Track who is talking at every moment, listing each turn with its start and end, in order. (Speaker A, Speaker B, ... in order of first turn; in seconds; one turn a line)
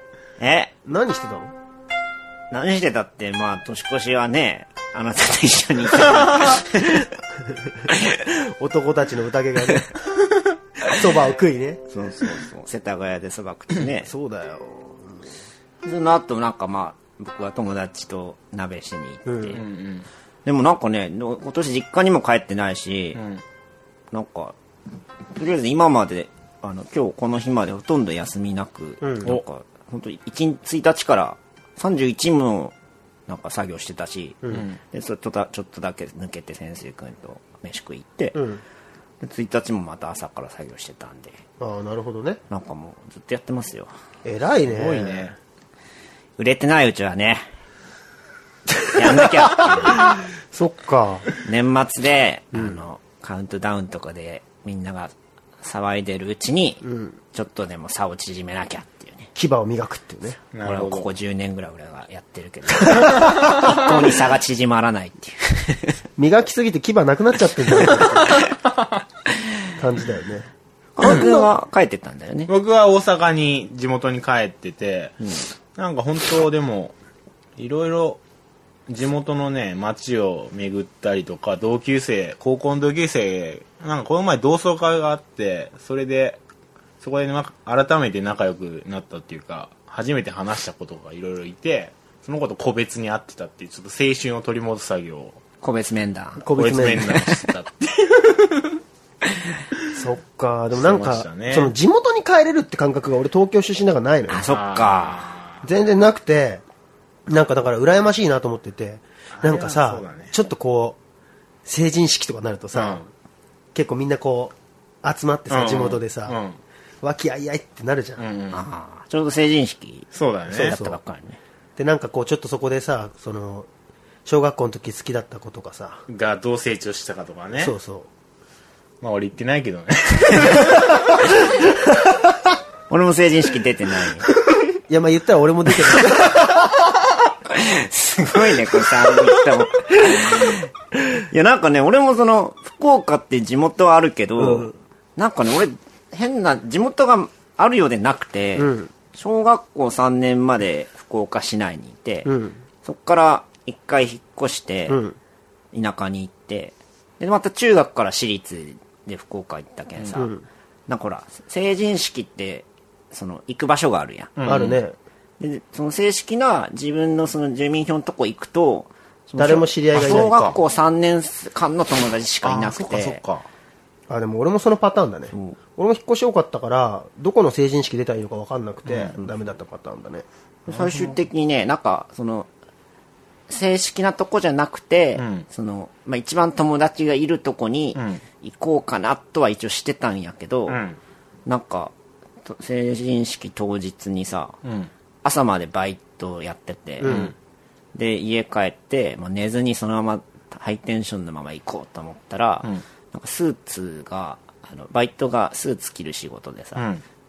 Speaker A: 0.4-0.7
Speaker B: 0.8-1.5
Speaker A: 2.5-7.1
Speaker B: 8.6-9.9
Speaker B: 10.8-11.8
Speaker A: 11.9-14.1
Speaker B: 14.0-15.2
Speaker A: 15.8-19.6
Speaker B: 19.2-19.6
Speaker C: 19.5-20.1
Speaker A: 20.4-23.2
Speaker C: 23.1-23.4
Speaker A: 24.1-24.6
Speaker A: 25.3-32.7
Speaker B: 29.0-29.3
Speaker A: 33.3-34.4
Speaker C: 34.5-34.8
Speaker A: 34.9-38.4
Speaker B: 38.3-38.6
Speaker A: 39.2-41.4
Speaker B: 41.6-42.4
Speaker A: 42.5-43.9
Speaker B: 44.2-45.3
Speaker C: 44.6-45.3
Speaker A: 46.4-47.4
Speaker A: 48.9-50.1
Speaker B: 49.0-51.3
Speaker A: 51.4-56.8
Speaker B: 56.8-57.2
Speaker A: 57.3-59.3
Speaker B: 59.4-60.4
Speaker C: 60.5-61.1
Speaker A: 60.6-66.0
Speaker B: 66.2-68.4
Speaker C: 67.8-69.0
Speaker B: 69.8-70.5
Speaker A: 71.0-72.5
Speaker C: 72.5-75.2
Speaker C: 75.8-77.0
Speaker C: 77.6-78.2
Speaker C: 78.9-86.4
Speaker C: 87.0-95.4
Speaker A: 95.6-96.5
Speaker B: 96.4-97.2
Speaker C: 96.5-98.8
Speaker B: 99.9-104.4
Speaker C: 100.7-101.7
Speaker A: 104.3-105.3
Speaker C: 104.5-105.6
Speaker B: 105.6-106.6
Speaker B: 107.3-111.0
Speaker C: 109.3-110.3
Speaker B: 111.6-113.0
Speaker C: 112.7-113.0
Speaker B: 113.7-116.4
Speaker C: 115.5-116.6
Speaker B: 117.0-118.2
Speaker C: 118.2-118.6
Speaker A: 118.5-120.1
Speaker C: 120.1-120.8
Speaker B: 120.5-121.0
Speaker A: 120.6-121.4
Speaker B: 121.8-123.7
Speaker B: 124.2-126.0
Speaker C: 126.1-127.7
Speaker B: 127.6-128.1
Speaker C: 129.0-131.1
Speaker A: 132.9-134.3
Speaker B: 134.9-136.6
Speaker A: 137.5-152.3
Speaker B: 144.4-144.8
Speaker B: 148.6-148.9
Speaker B: 152.2-152.6
Speaker A: 152.8-155.0
Speaker B: 154.9-155.2
Speaker A: 155.7-160.3
Speaker C: 160.0-160.2
Speaker B: 160.2-160.4
Speaker A: 160.9-164.3
Speaker C: 164.3-164.8
Speaker B: 164.4-164.9
Speaker A: 165.4-173.2
Speaker B: 169.4-170.3
Speaker C: 169.9-170.6
Speaker C: 172.4-173.5
Speaker B: 174.1-180.2
Speaker C: 178.8-179.2
Speaker A: 180.7-182.5
Speaker C: 180.7-181.2
Speaker A: 183.5-190.8
Speaker C: 185.2-185.4
Speaker C: 187.9-188.2
Speaker C: 190.7-191.0
Speaker A: 191.4-191.9
Speaker A: 192.4-194.6
Speaker C: 194.6-194.9
Speaker A: 195.2-197.2
Speaker B: 197.0-197.3
Speaker C: 197.0-197.3
Speaker A: 197.9-206.8
Speaker C: 206.8-207.0